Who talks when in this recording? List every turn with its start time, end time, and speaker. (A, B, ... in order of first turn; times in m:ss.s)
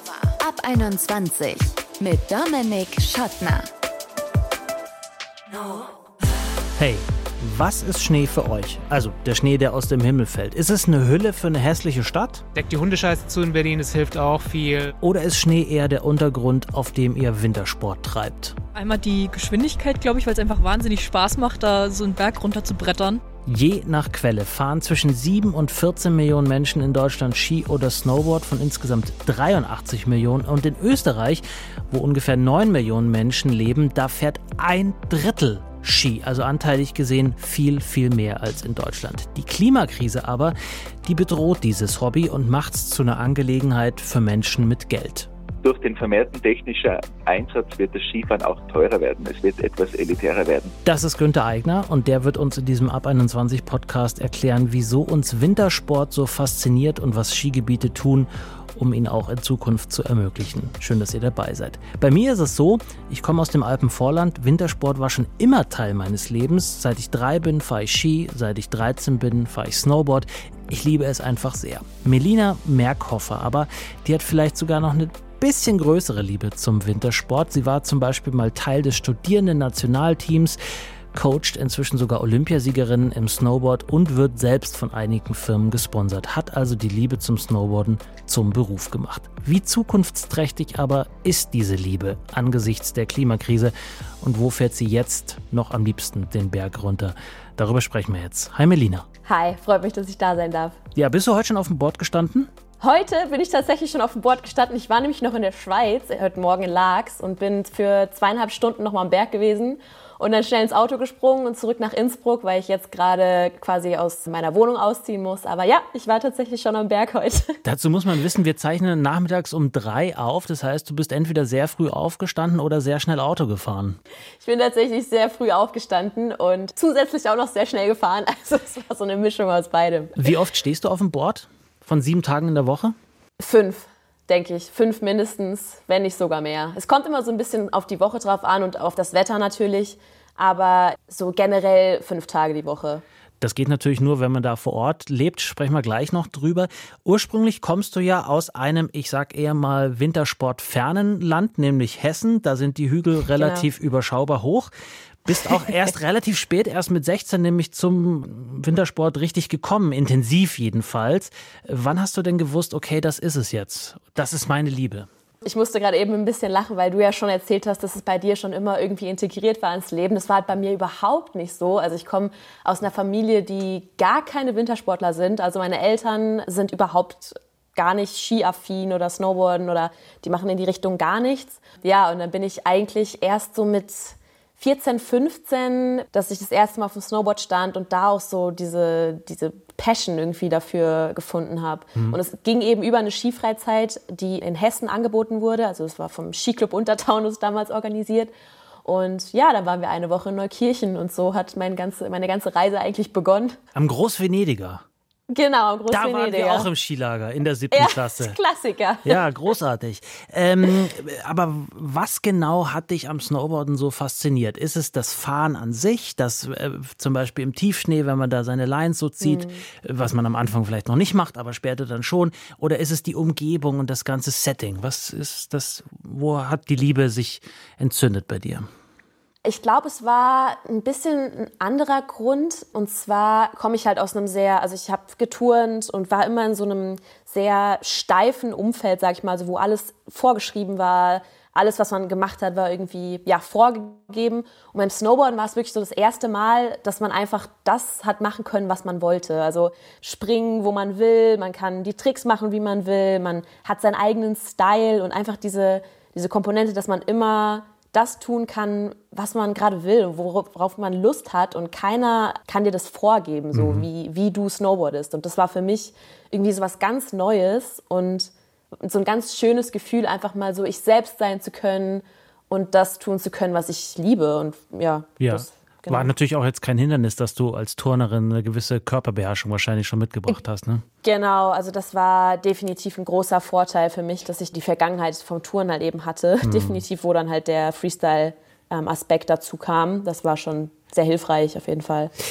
0:00.3-0:03.6 A
0:06.8-0:12.4 B
0:12.5-0:14.9 C
0:15.0-0:18.6 B
0:18.8-0:23.2 D
0:23.4-0:45.3 B
0:45.6-0:50.7 E
0:50.8-1:20.6 B
1:21.1-1:39.1 B
1:39.2-1:40.8 F
1:41.0-1:42.5 B
1:42.8-1:57.6 F
1:57.6-2:04.0 B
2:04.4-2:10.3 F
2:10.2-2:12.9 B
2:13.4-2:23.0 F
2:23.4-2:34.7 B
2:33.4-2:33.7 F
2:35.2-2:45.1 B
2:45.4-3:18.3 F
3:18.8-3:23.6 F
3:23.7-3:24.8 B
3:25.3-3:26.7 F
3:25.9-3:28.4 B
3:27.7-3:29.2 F
3:29.0-3:48.7 B
3:39.2-3:39.6 F
3:49.4-4:36.1 F
4:23.5-4:23.9 B
4:35.2-4:40.8 B
4:41.0-4:52.1 F
4:46.4-4:46.8 B